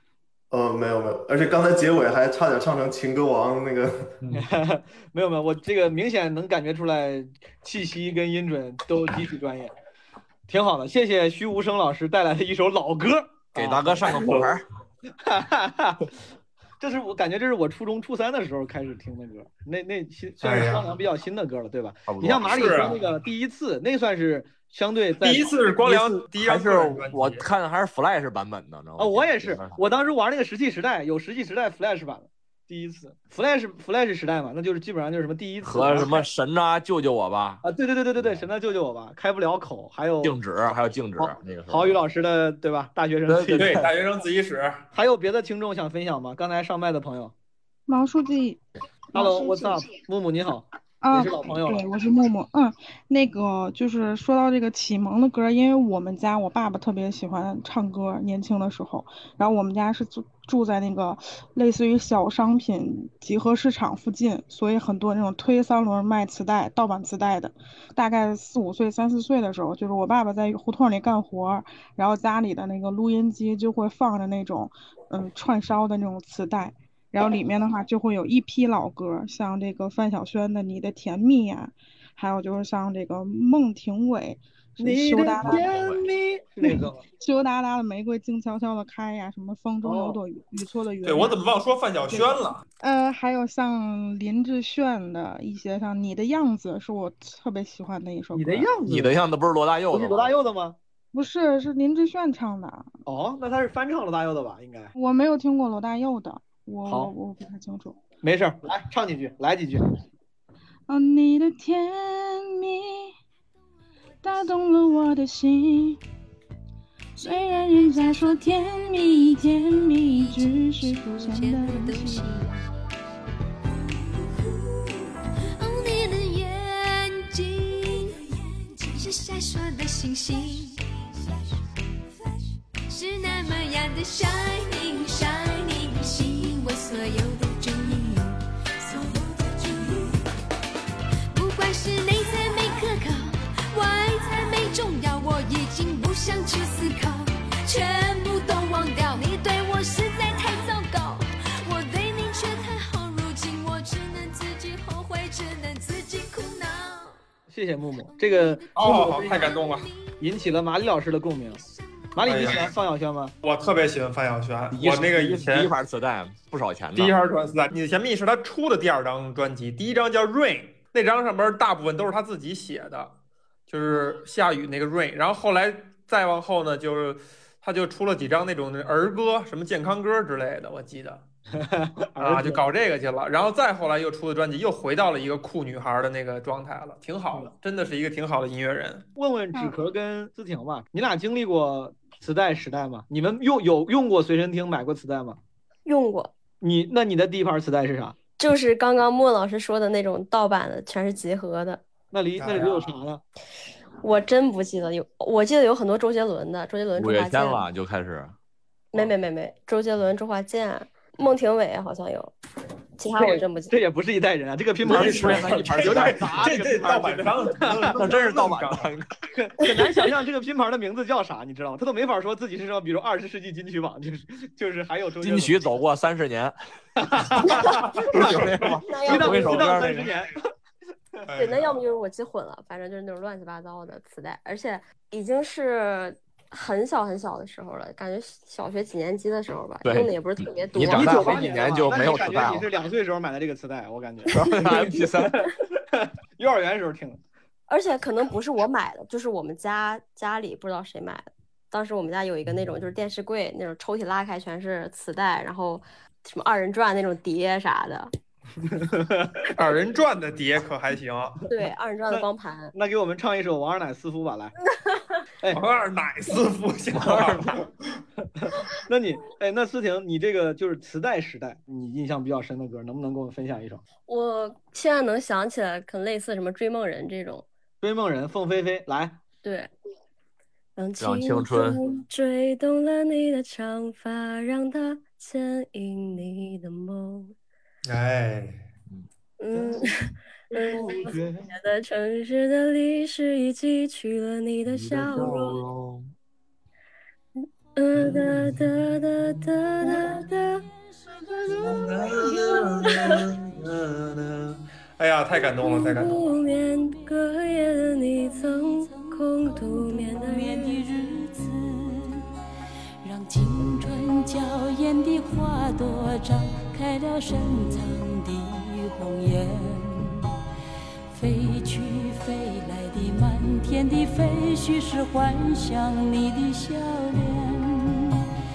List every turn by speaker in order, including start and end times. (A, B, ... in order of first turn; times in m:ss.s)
0:00.5-0:04.2 A
0:04.3-0:09.7 B
0:10.5-0:14.3 B
0:13.6-0:14.6 C
0:14.1-0:14.5 D
0:15.2-0:16.0 B
0:16.8-0:26.2 B
0:20.4-0:20.9 D
0:22.1-0:22.9 C
0:22.5-0:23.0 D
0:25.2-0:27.4 D
0:26.4-0:29.8 C
0:29.0-0:36.2 B
0:35.6-0:37.6 C
0:37.6-0:40.3 B
0:40.2-0:42.0 C
0:41.2-0:43.8 B
0:43.3-0:43.9 C
0:43.6-0:44.8 D
0:44.9-0:47.3 B
0:47.9-0:48.6 E
0:49.1-0:51.8 B
0:51.0-1:25.7 E
1:24.8-1:27.0 B
1:25.4-1:26.0 C
1:26.6-1:31.4 E
1:29.8-1:30.2 B
1:31.0-1:32.6 D
1:32.1-1:38.7 E
1:38.3-1:39.2 B
1:38.9-1:40.3 C
1:39.9-1:40.8 B
1:41.1-1:42.9 E
1:43.1-1:44.9 B
1:45.0-1:48.0 E
1:48.2-1:49.9 B
1:50.9-1:53.1 E
1:54.2-1:56.0 E
1:57.2-2:02.3 E
2:01.4-2:02.4 F
2:03.7-2:10.8 F
2:12.9-2:20.2 F
2:21.3-2:37.2 F
2:37.5-2:39.5 B
2:38.8-2:39.9 D
2:39.5-2:40.0 F
2:40.2-2:41.6 B
2:42.2-2:43.3 B
2:42.2-2:42.7 D
2:43.4-2:45.7 D
2:44.7-2:47.2 C
2:47.0-2:53.2 D
2:53.7-3:01.2 D
3:01.6-3:02.6 B
3:02.2-3:09.0 D
3:09.2-3:15.4 B
3:15.8-3:16.3 G
3:16.6-3:18.2 B
3:18.4-3:21.8 G
3:22.1-3:23.2 B
3:22.4-3:22.8 D
3:24.0-3:27.7 G
3:27.0-3:28.4 C
3:28.9-3:32.3 G
3:33.0-3:33.7 G
3:33.2-3:38.0 B
3:34.8-3:36.9 C
3:34.8-3:38.9 D
3:37.8-3:39.1 C
3:39.3-3:45.7 B
3:45.2-3:46.5 C
3:47.0-3:48.5 B
3:47.4-3:50.1 C
3:48.0-3:48.7 D
3:48.8-3:49.7 G
3:49.0-3:50.4 B
3:51.3-3:51.8 D
3:51.3-4:01.5 G
3:59.8-4:02.7 C
4:00.9-4:07.2 B
4:04.3-4:05.4 C
4:07.7-4:18.1 G
4:18.7-4:19.3 B
4:19.6-4:21.4 D
4:21.5-4:22.7 G
4:22.1-4:24.5 B
4:25.5-4:27.6 D
4:27.0-4:27.6 C
4:28.4-4:33.8 B
4:34.1-4:37.5 G
4:37.8-4:39.2 B
4:39.4-4:39.7 G
4:40.8-4:47.3 G
4:41.0-4:41.8 C
4:47.8-4:48.7 D
4:49.4-4:49.9 G
4:49.5-4:49.9 B
4:50.5-4:55.6 G
4:50.5-4:51.5 B
4:54.7-4:56.0 C
4:57.8-5:00.6 G
5:01.6-5:06.2 D
5:02.8-5:03.1 G
5:05.5-5:10.9 G
5:09.7-5:12.2 H
5:13.0-5:20.2 H
5:21.1-5:28.2 H